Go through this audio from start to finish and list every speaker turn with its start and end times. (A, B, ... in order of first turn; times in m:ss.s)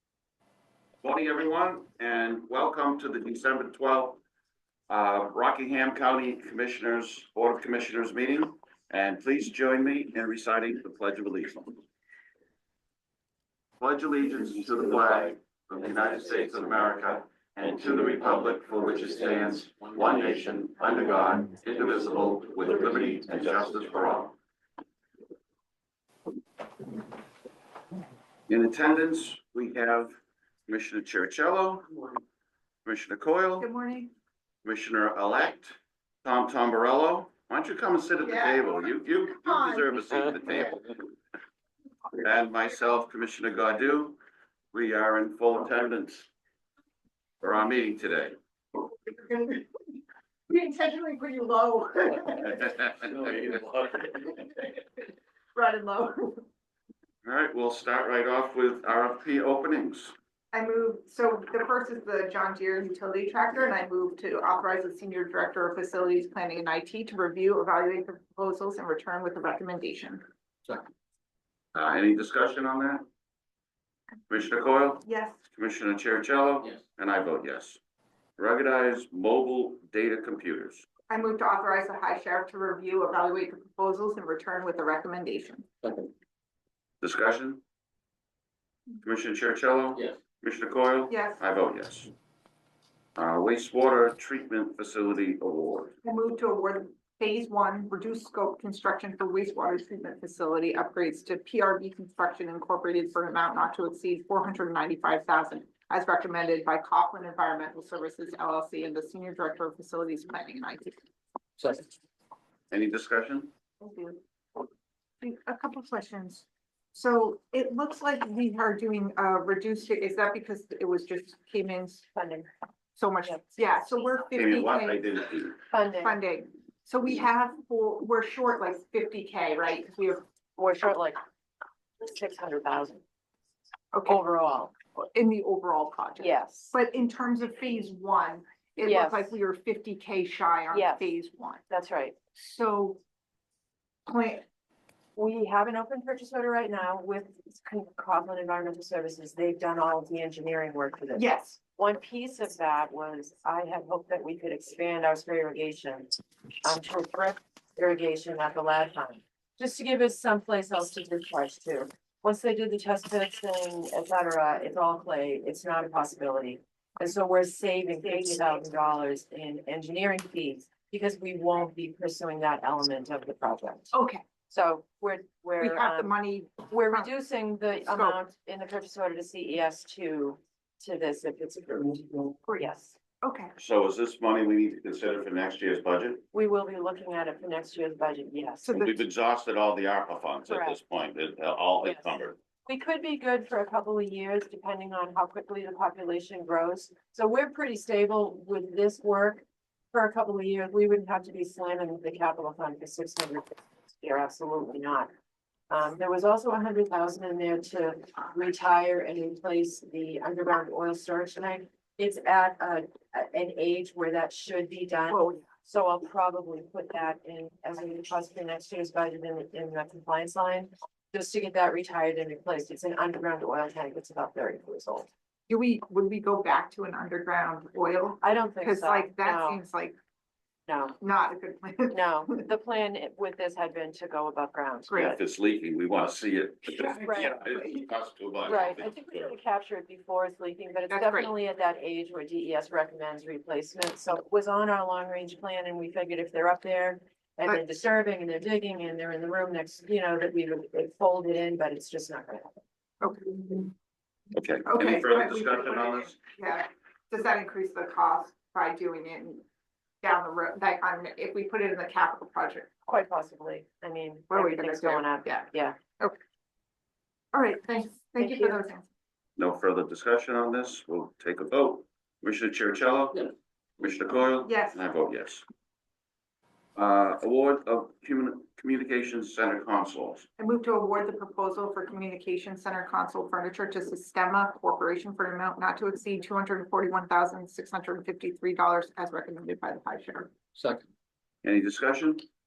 0:01.0-0:04.2 A
0:04.9-0:11.8 A
0:13.8-0:24.4 A
0:19.9-0:20.4 B
0:21.9-0:23.2 B
0:28.5-0:31.9 A
0:32.8-0:33.7 A
0:33.6-0:34.1 C
0:34.6-0:41.0 A
0:38.2-0:39.9 C
0:42.2-0:44.2 A
0:44.7-0:46.3 A
0:47.4-0:48.4 A
0:48.8-0:50.0 C
0:50.5-0:53.3 C
0:52.6-0:53.3 A
0:53.1-0:54.0 B
0:54.0-0:54.8 C
0:55.6-0:56.4 C
0:57.2-1:00.2 A
1:00.5-1:10.2 C
1:11.8-1:13.1 A
1:14.3-1:17.8 A
1:15.0-1:15.4 C
1:18.4-1:20.9 A
1:21.1-1:25.7 C
1:25.8-1:26.1 B
1:27.0-1:27.6 A
1:29.0-1:32.1 A
1:31.1-1:31.4 C
1:33.2-1:35.9 A
1:36.0-1:51.0 C
1:51.6-1:51.9 B
1:52.7-1:53.5 A
1:53.8-1:54.2 C
1:55.2-2:02.1 C
2:02.2-2:02.5 D
2:03.0-2:05.1 C
2:04.4-2:05.6 A
2:05.7-2:06.2 D
2:06.0-2:10.2 C
2:10.6-2:11.2 D
2:12.0-2:13.0 D
2:13.9-2:14.2 C
2:14.1-2:14.7 D
2:15.0-2:21.6 C
2:16.2-2:16.8 D
2:18.8-2:19.4 D
2:20.7-2:21.1 D
2:21.7-2:22.2 D
2:22.4-2:23.0 C
2:24.1-2:24.4 C
2:25.2-2:36.1 D
2:31.2-2:31.6 C
2:36.6-2:53.9 D
2:53.9-2:54.2 C
2:54.5-2:56.1 D
2:55.6-2:57.1 C
2:56.7-3:03.0 D
2:57.8-2:58.2 C
3:03.2-3:03.5 C
3:03.6-3:06.2 A
3:06.3-3:08.8 D
3:08.6-3:09.0 C
3:08.8-3:12.4 A
3:10.5-3:10.8 D
3:12.7-3:25.1 D
3:25.7-3:45.1 D
3:35.1-3:35.5 C
3:45.5-3:50.0 C
3:48.2-3:49.6 D
3:50.7-3:51.0 D
3:51.0-3:52.4 C
3:51.9-3:55.2 D
3:54.9-3:58.9 A
3:56.9-3:57.9 C
3:57.0-3:57.4 D
3:58.4-4:12.6 D
3:58.5-3:58.8 C
4:00.9-4:01.3 C
4:13.0-4:13.7 C
4:14.3-4:16.2 A
4:14.7-4:19.4 C
4:20.0-4:22.7 C
4:22.9-4:25.8 D
4:24.3-4:25.4 C
4:27.3-4:28.8 C
4:28.2-4:28.6 D
4:29.4-4:35.5 A
4:34.5-4:34.8 C
4:36.8-4:40.3 A
4:40.4-4:50.3 C
4:50.6-4:50.9 B
4:51.4-4:52.3 A